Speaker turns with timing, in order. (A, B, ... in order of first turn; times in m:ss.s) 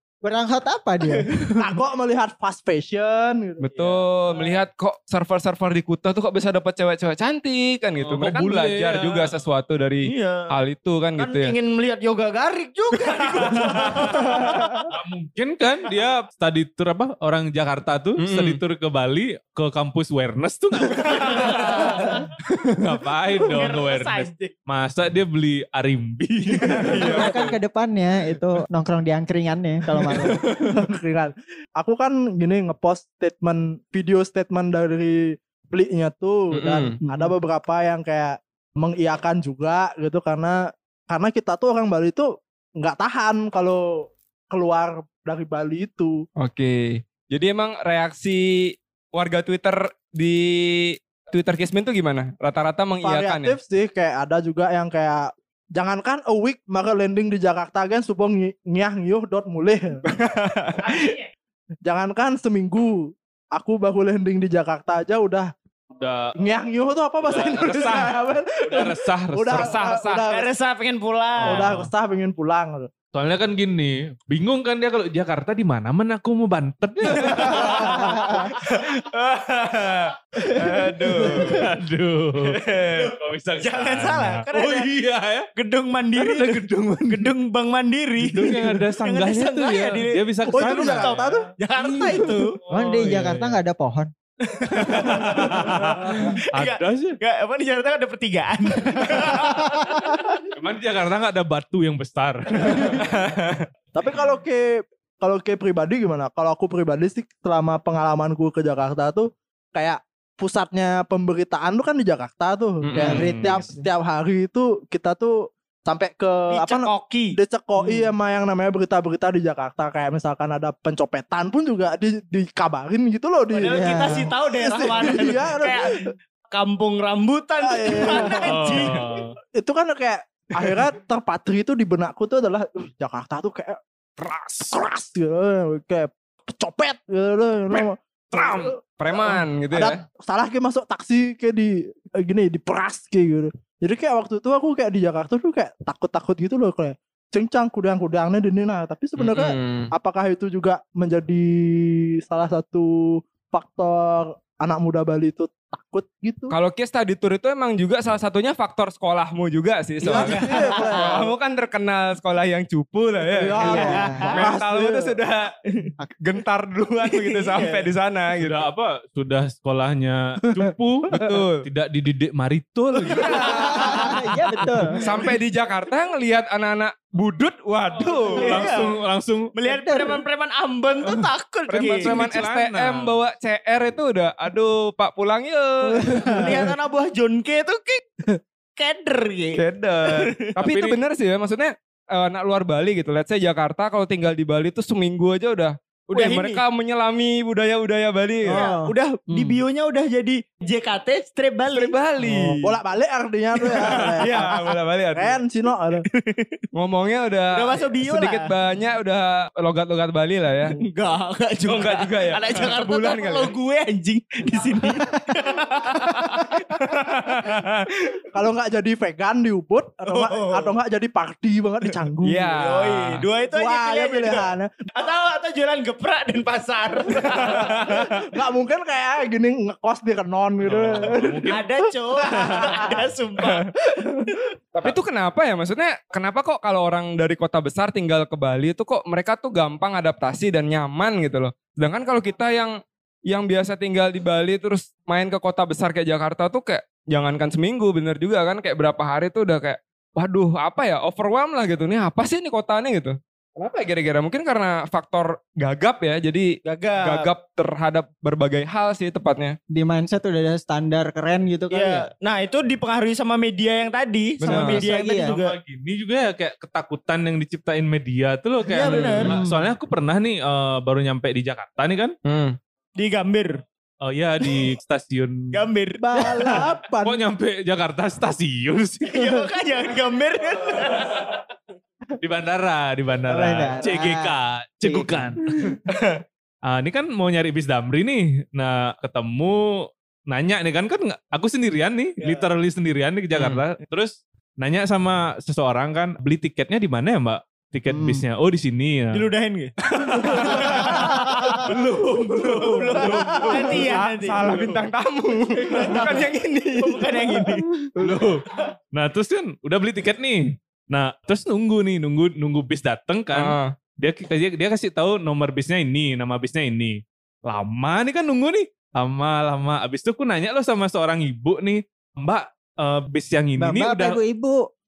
0:00.2-0:01.8 A
0:01.6-0:03.6 B
0:03.6-0:11.6 C
0:03.7-0:04.5 D
0:08.0-0:09.4 E
0:10.0-0:10.5 D
0:11.2-0:14.8 D
0:14.0-0:22.0 E
0:18.2-0:18.6 C
0:21.1-0:22.3 D
0:21.9-0:22.2 B
0:22.7-0:27.4 E
0:23.4-0:24.5 D
0:26.5-0:27.1 B
0:26.8-0:27.6 C
0:27.1-0:30.4 A
0:30.0-0:30.5 E
0:30.6-0:46.2 B
0:36.5-0:37.0 C
0:37.0-0:37.3 A
0:46.4-0:53.6 C
0:53.0-1:00.0 B
1:00.0-1:00.8 C
1:00.8-1:01.3 D
1:01.8-1:05.5 B
1:06.0-1:06.3 E
1:06.4-1:10.5 B
1:07.2-1:09.8 E
1:09.5-1:10.3 C
1:10.3-1:11.7 D
1:11.4-1:11.9 E
1:11.4-1:12.9 B
1:13.1-1:18.2 E
1:17.2-1:20.0 D
1:17.3-1:18.4 B
1:20.5-1:21.7 C
1:21.1-1:25.5 E
1:22.6-1:24.9 D
1:25.6-1:32.6 D
1:26.2-1:27.3 E
1:28.2-1:31.4 E
1:30.5-1:31.5 B
1:31.8-1:34.1 A
1:32.7-1:33.6 E
1:34.4-1:40.3 D
1:34.7-1:37.2 E
1:35.8-1:36.3 B
1:40.5-1:43.5 E
1:42.6-1:43.0 B
1:43.0-1:43.6 C
1:43.9-2:06.1 B
1:52.8-1:53.3 C
1:53.0-1:53.8 A
1:53.0-1:53.6 E
1:56.5-1:57.4 D
1:57.8-1:58.1 A
2:03.5-2:06.0 D
2:03.7-2:04.3 A
2:06.5-2:09.0 D
2:07.6-2:08.9 B
2:08.4-2:09.4 E
2:09.6-2:13.8 B
2:14.2-2:14.7 C
2:14.6-2:36.6 B
2:17.7-2:20.0 C
2:29.2-2:29.9 C
2:36.5-2:45.5 C
2:40.0-2:41.4 B
2:40.1-2:40.3 A
2:40.2-2:41.1 D
2:43.3-2:45.2 B
2:43.6-2:44.3 A
2:43.7-2:44.4 D
2:46.2-2:48.6 C
2:47.1-2:47.9 D
2:48.4-2:53.6 E
2:51.1-2:51.7 C
2:53.2-2:54.1 C
2:53.2-2:53.8 D
2:53.5-2:55.0 A
2:55.0-2:58.7 C
2:58.3-2:59.5 E
2:58.4-2:59.0 D
2:59.6-3:02.2 D
2:59.6-3:00.2 A
3:01.7-3:06.4 C
3:01.8-3:03.2 E
3:06.0-3:06.6 B
3:06.3-3:08.1 D
3:08.8-3:10.5 D
3:09.6-3:18.6 C
3:10.6-3:11.0 E
3:16.1-3:16.6 D
3:18.5-3:19.6 A
3:18.5-3:22.0 D
3:21.7-3:22.8 C
3:22.2-3:22.5 A
3:22.6-3:24.6 B
3:23.6-3:24.6 D
3:24.0-3:25.4 C
3:25.1-3:26.0 B
3:26.0-3:26.6 D
3:26.8-3:30.8 C
3:27.6-3:28.5 D
3:30.8-3:37.0 D
3:31.6-3:33.5 C
3:37.1-3:37.9 C
3:38.3-3:42.5 B
3:40.1-3:40.8 D
3:42.2-3:43.2 C
3:42.5-3:48.0 D
3:43.4-3:44.9 B
3:47.4-3:51.8 B
3:50.6-3:51.6 E
3:51.5-3:53.7 D
3:52.3-3:53.0 B
3:53.8-3:54.4 B
3:54.7-4:19.6 C
4:16.6-4:17.3 D
4:19.7-4:22.1 A
4:21.7-4:25.6 D
4:24.4-4:24.8 C
4:24.4-4:25.3 A
4:25.0-4:32.2 E
4:28.7-4:29.3 D
4:28.9-4:29.7 A
4:32.2-4:32.6 C
4:33.0-4:33.6 D
4:34.0-4:35.6 E
4:35.5-4:36.6 D
4:36.0-4:37.2 B
4:36.1-4:36.6 A
4:37.0-4:39.4 E
4:39.0-4:41.3 D
4:42.2-4:45.7 E
4:43.3-4:45.7 A
4:46.6-4:59.3 E
4:52.2-4:52.5 D
4:53.4-4:53.6 C
4:57.9-4:58.2 A
4:59.1-5:01.7 D
4:59.9-5:03.8 E
5:02.5-5:04.5 D
5:03.6-5:07.5 C
5:05.6-5:06.2 D
5:06.8-5:07.7 D
5:08.0-5:24.2 E
5:08.0-5:08.3 C
5:13.3-5:13.8 C
5:23.6-5:24.6 A